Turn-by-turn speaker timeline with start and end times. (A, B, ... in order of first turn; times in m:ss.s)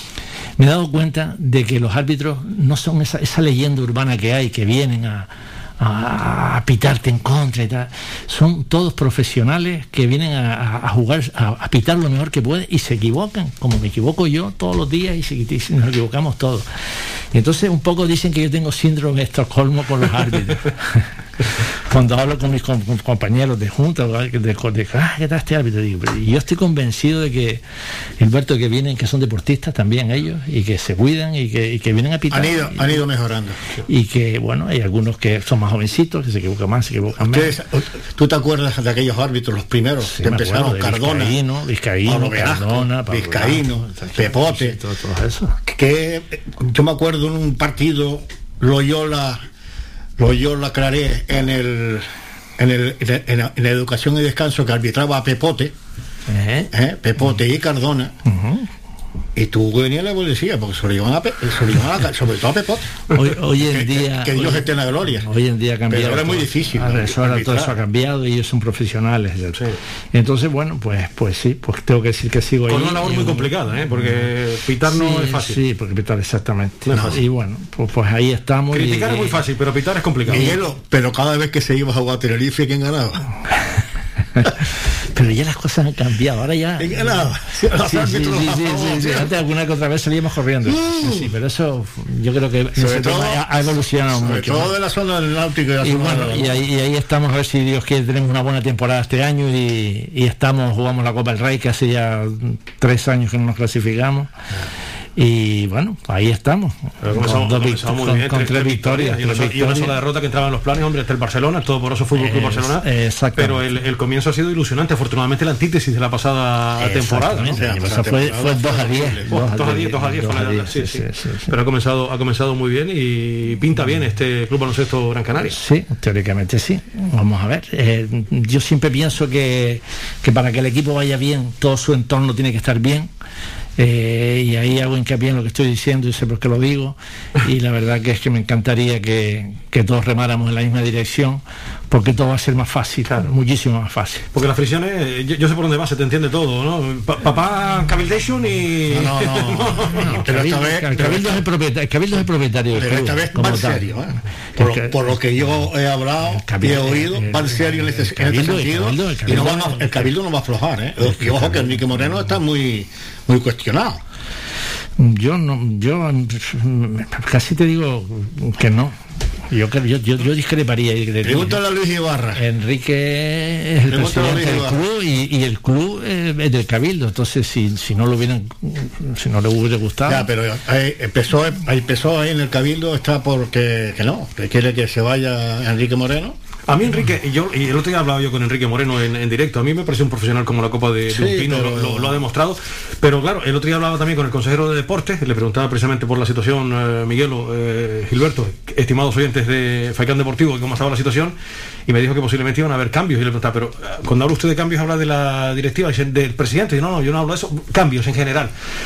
0:00.6-0:16.7 A
0:17.3-0:27.6 A
0:28.2-0:33.0 A
0:32.3-0:33.6 B
0:33.9-0:37.5 A
0:37.2-0:41.4 B
0:40.0-0:45.6 A
0:42.1-0:44.8 B
0:45.7-0:49.4 B
0:50.2-0:52.0 B
0:52.6-0:55.7 B
0:56.3-0:56.7 A
0:56.7-0:58.1 B
0:58.3-0:58.7 A
0:59.4-1:03.0 B
1:03.1-1:04.7 A
1:03.6-1:05.3 B
1:05.2-1:14.3 A
1:05.9-1:07.7 B
1:12.7-1:15.6 C
1:14.9-1:19.4 A
1:16.9-1:17.2 C
1:18.7-1:20.5 C
1:20.3-1:23.2 B
1:25.1-1:34.7 A
1:26.8-1:29.3 B
1:30.7-1:31.3 B
1:32.8-1:36.6 B
1:35.8-1:44.3 A
1:45.2-1:49.9 A
1:47.0-1:52.9 C
1:52.2-1:53.7 A
1:53.4-1:57.6 C
1:56.8-2:01.5 A
1:57.5-1:59.3 B
1:59.3-2:05.6 C
2:05.4-2:13.1 A
2:13.8-2:24.3 A
2:24.3-2:30.0 C
2:28.9-2:31.4 B
2:30.0-2:33.9 A
2:32.8-2:44.0 B
2:34.6-2:35.7 A
2:36.3-2:40.1 A
2:41.0-2:42.2 A
2:45.0-2:51.6 A
2:51.2-2:52.4 B
2:52.4-3:00.3 A
2:53.9-2:54.8 B
3:00.1-3:06.4 B
3:06.7-3:21.4 C
3:11.1-3:12.2 B
3:21.9-3:28.5 C